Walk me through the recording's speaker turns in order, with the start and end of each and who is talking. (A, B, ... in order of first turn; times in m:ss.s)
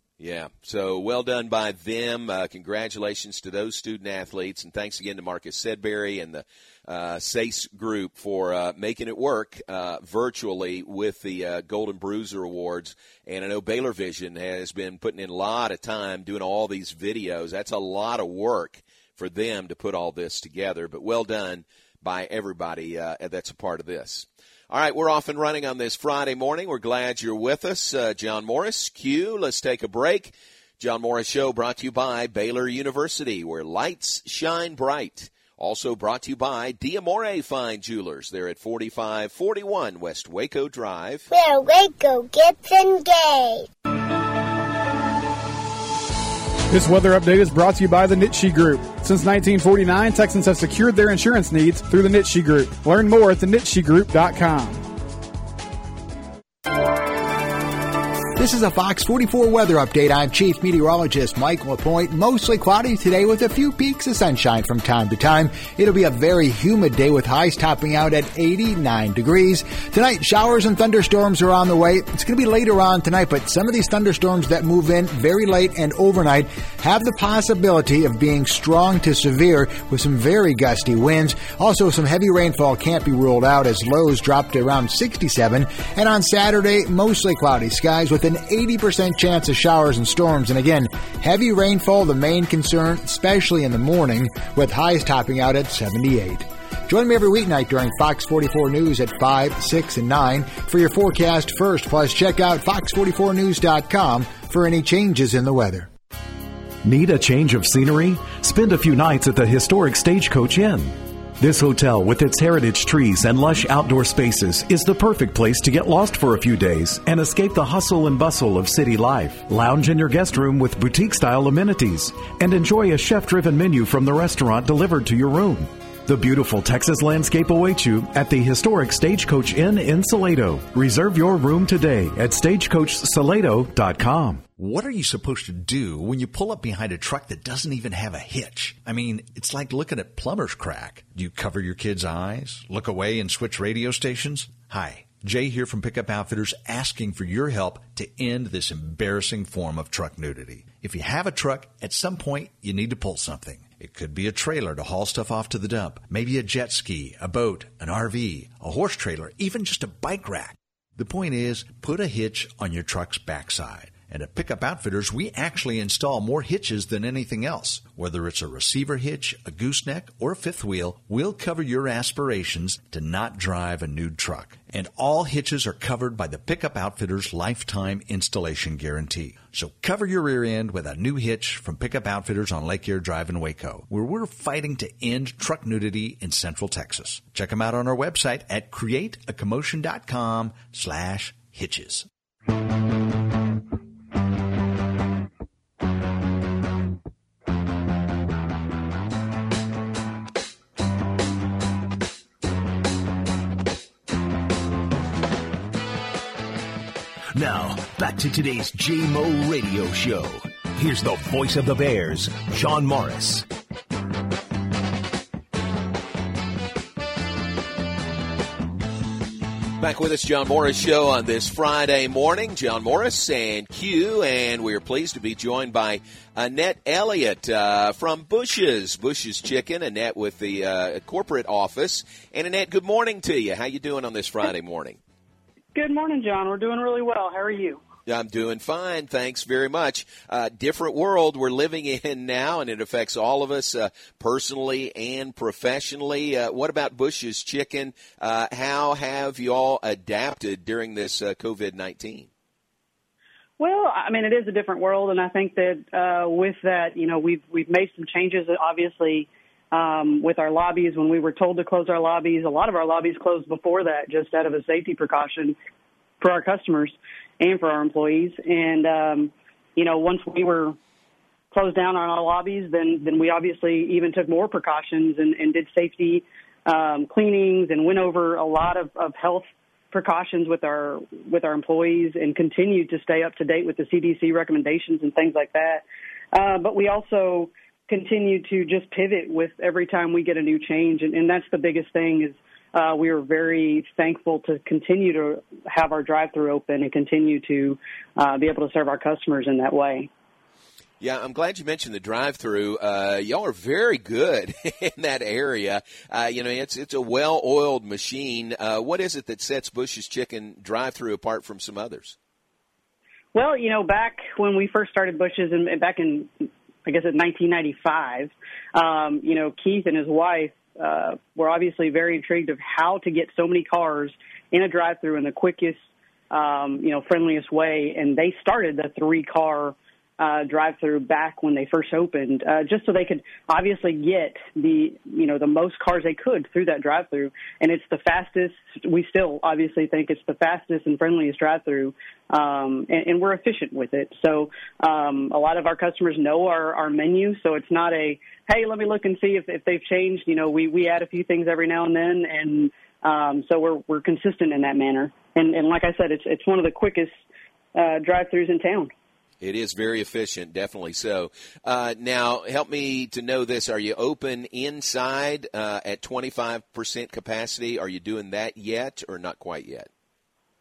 0:00.2-0:41.3 A
0:41.3-0:43.7 B
0:46.7-0:54.9 C
0:58.4-1:45.9 D
1:46.8-2:14.4 E
2:14.6-3:12.1 F
3:27.3-3:33.5 G
3:39.8-3:55.0 A
3:55.8-3:57.8 H
3:58.1-4:12.3 A
4:13.6-4:25.6 H
4:26.2-4:30.8 H
4:31.5-5:00.1 H
5:01.0-5:12.2 A
5:13.3-5:57.2 H
5:57.8-5:58.9 H
5:59.4-6:09.9 A